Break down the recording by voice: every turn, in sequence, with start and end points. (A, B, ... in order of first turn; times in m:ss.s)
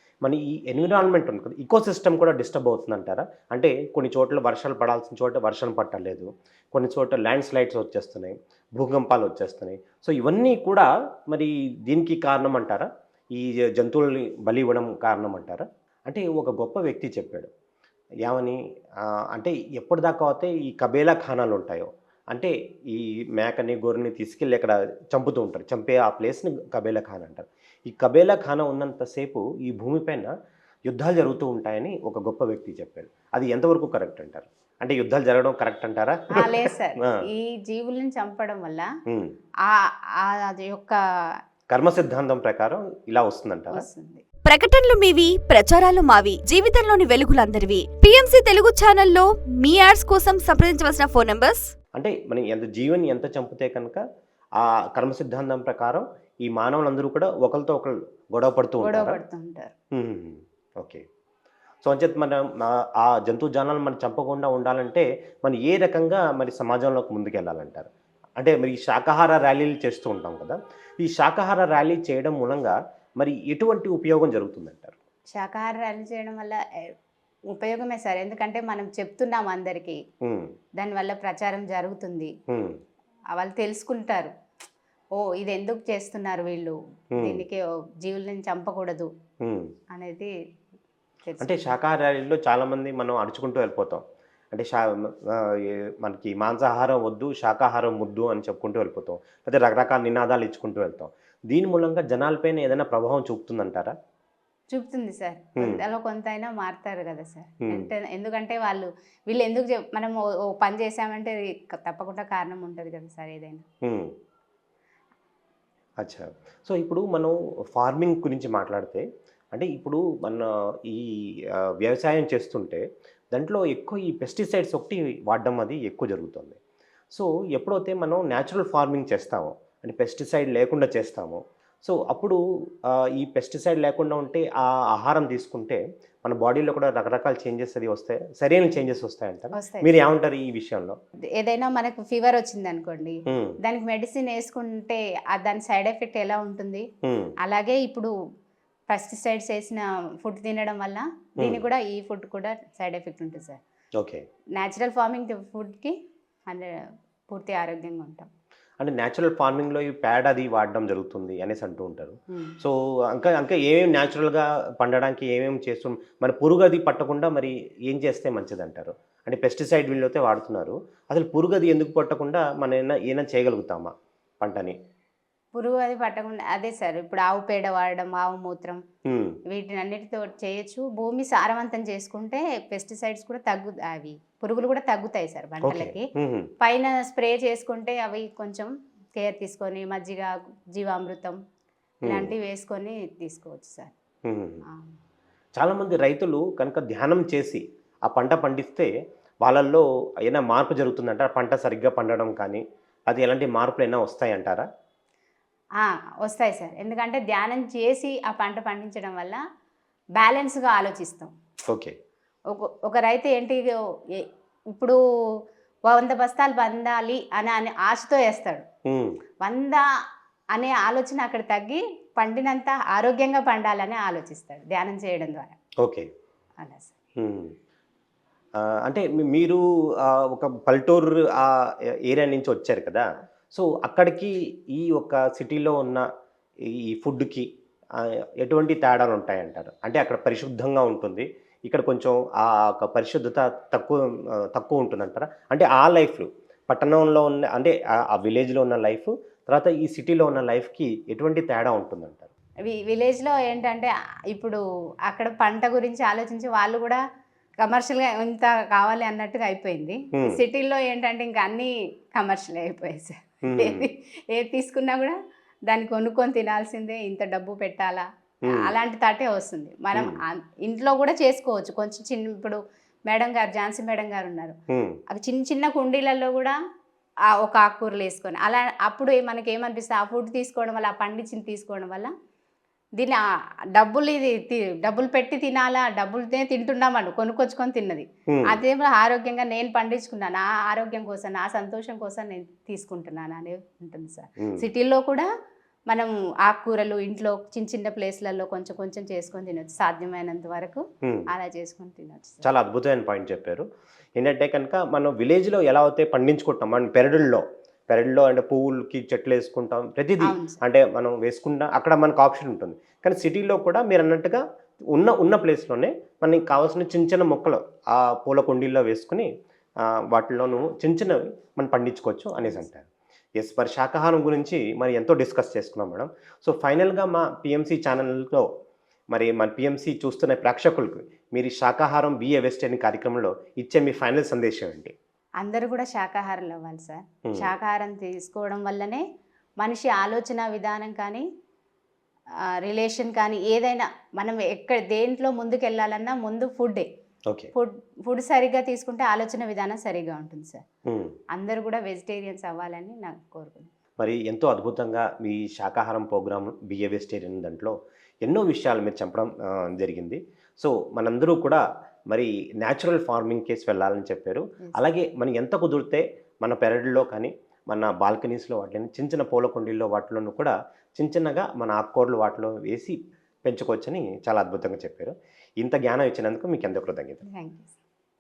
0:00.2-0:17.5 A
0:18.2-0:30.3 A
0:30.9-0:37.2 A
0:36.3-0:38.9 B
0:39.1-0:39.3 A
0:39.6-0:41.0 B
0:41.7-0:43.9 A
0:43.7-0:44.2 B
0:44.5-0:51.7 C
0:52.0-0:54.0 A
0:54.6-0:59.2 A
0:58.8-0:59.7 B
0:59.9-1:01.0 A
1:01.8-1:07.9 A
1:08.4-1:15.0 A
1:15.3-1:16.6 B
1:17.5-1:20.0 B
1:20.2-1:20.5 A
1:20.8-1:22.3 B
1:22.5-1:22.8 A
1:23.4-1:24.3 B
1:25.2-1:29.1 B
1:27.2-1:27.4 A
1:29.4-1:29.7 A
1:29.9-1:30.3 B
1:31.2-1:31.5 B
1:31.4-1:43.9 A
1:44.7-1:53.6 B
1:53.8-1:54.1 A
1:56.0-2:06.6 A
2:07.1-2:21.0 A
2:19.6-2:19.9 B
2:21.4-2:26.9 B
2:23.3-2:23.6 A
2:27.0-2:27.3 A
2:27.4-2:28.1 B
2:28.9-2:33.6 B
2:34.0-2:34.2 A
2:34.6-2:36.0 B
2:37.3-2:38.3 B
2:38.8-2:54.8 A
2:55.6-2:58.8 B
2:59.1-2:59.4 A
2:59.5-3:06.1 B
3:05.6-3:06.5 A
3:06.6-3:11.4 B
3:12.0-3:12.3 A
3:12.0-3:13.9 B
3:14.2-3:14.6 A
3:14.7-3:15.0 B
3:15.6-3:18.9 A
3:19.4-3:24.7 A
3:25.8-3:29.4 B
3:30.2-3:31.3 B
3:32.5-3:35.0 B
3:35.9-3:38.6 B
3:38.9-3:39.2 A
3:39.4-3:39.8 B
3:40.5-3:45.6 B
3:46.6-3:46.9 B
3:47.2-3:47.5 A
3:48.6-3:56.1 A
3:56.7-4:12.3 A
4:12.7-4:17.0 B
4:17.6-4:25.2 B
4:20.1-4:20.4 A
4:23.4-4:23.9 A
4:25.7-4:28.1 B
4:28.5-4:28.7 A
4:28.6-4:34.6 B
4:34.7-4:35.0 A
4:35.1-4:36.6 B
4:37.3-4:42.1 B
4:43.8-4:55.3 B
4:48.3-4:48.6 A
4:54.4-4:54.7 A
4:55.9-5:02.5 B
5:02.4-5:03.6 A
5:04.2-5:14.4 A
5:10.2-5:10.6 B
5:14.9-5:19.3 A
5:19.9-5:22.9 A
5:23.4-5:28.5 A
5:29.1-5:34.9 A
5:35.4-5:39.0 B
5:39.6-5:41.2 B
5:42.6-5:46.9 B
5:47.6-5:50.6 B
5:50.9-5:51.1 A
5:51.4-5:53.7 B
5:54.0-6:17.2 A
6:17.3-6:17.8 B